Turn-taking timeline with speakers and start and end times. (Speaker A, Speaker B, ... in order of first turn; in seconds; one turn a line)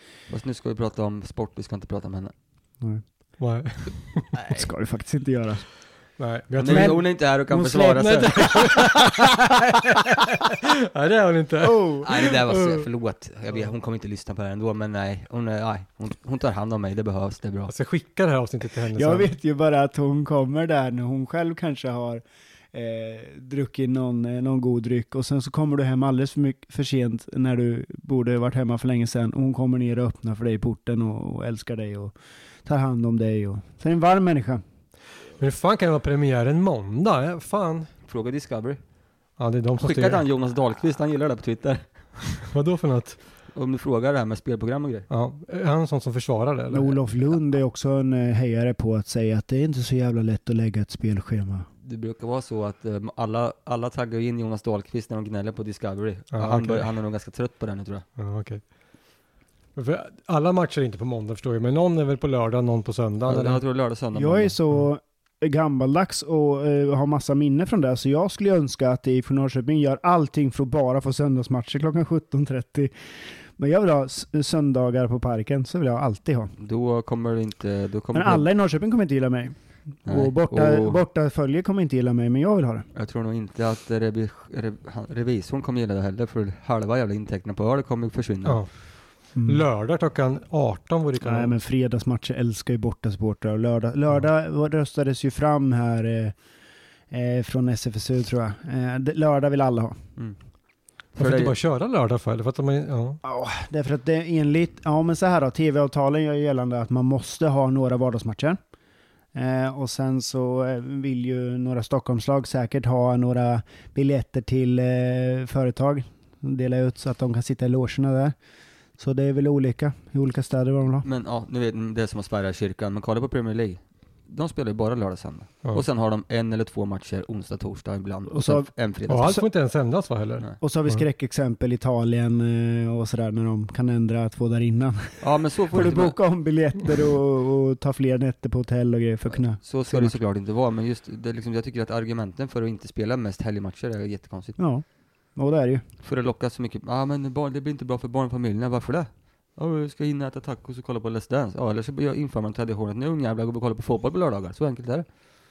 Speaker A: 0.3-2.3
Speaker B: 3.4-4.3
Speaker C: 4.5-5.7
Speaker B: 6.2-7.0
Speaker A: 6.5-8.4
Speaker C: 6.6-9.4
Speaker B: 7.9-12.8
Speaker C: 11.6-12.1
Speaker A: 12.0-17.7
Speaker B: 17.7-19.3
Speaker C: 18.9-22.2
Speaker C: 22.7-32.1
Speaker C: 32.6-34.6
Speaker B: 35.4-37.9
Speaker A: 38.1-38.8
Speaker B: 39.4-40.2
Speaker A: 39.8-41.9
Speaker B: 42.4-43.2
Speaker A: 43.5-45.1
Speaker B: 45.1-47.0
Speaker C: 46.7-51.7
Speaker A: 51.8-58.0
Speaker B: 56.3-56.9
Speaker B: 58.2-58.6
Speaker B: 59.7-63.6
Speaker A: 63.2-64.5
Speaker C: 64.1-72.9
Speaker C: 73.6-76.5
Speaker A: 76.6-78.5
Speaker C: 78.1-82.9
Speaker A: 80.0-81.0
Speaker A: 82.9-88.6
Speaker B: 88.4-91.5
Speaker C: 89.3-89.7
Speaker C: 91.2-96.3
Speaker C: 97.1-100.0
Speaker A: 101.1-101.5
Speaker B: 101.2-103.2
Speaker C: 103.2-108.6
Speaker C: 109.3-118.3
Speaker C: 119.0-121.1
Speaker A: 121.0-129.3
Speaker C: 128.3-128.7
Speaker B: 129.1-131.0
Speaker C: 130.6-140.2
Speaker A: 135.2-136.1
Speaker A: 139.3-144.6
Speaker C: 144.6-144.8
Speaker C: 145.3-145.8
Speaker A: 146.0-155.1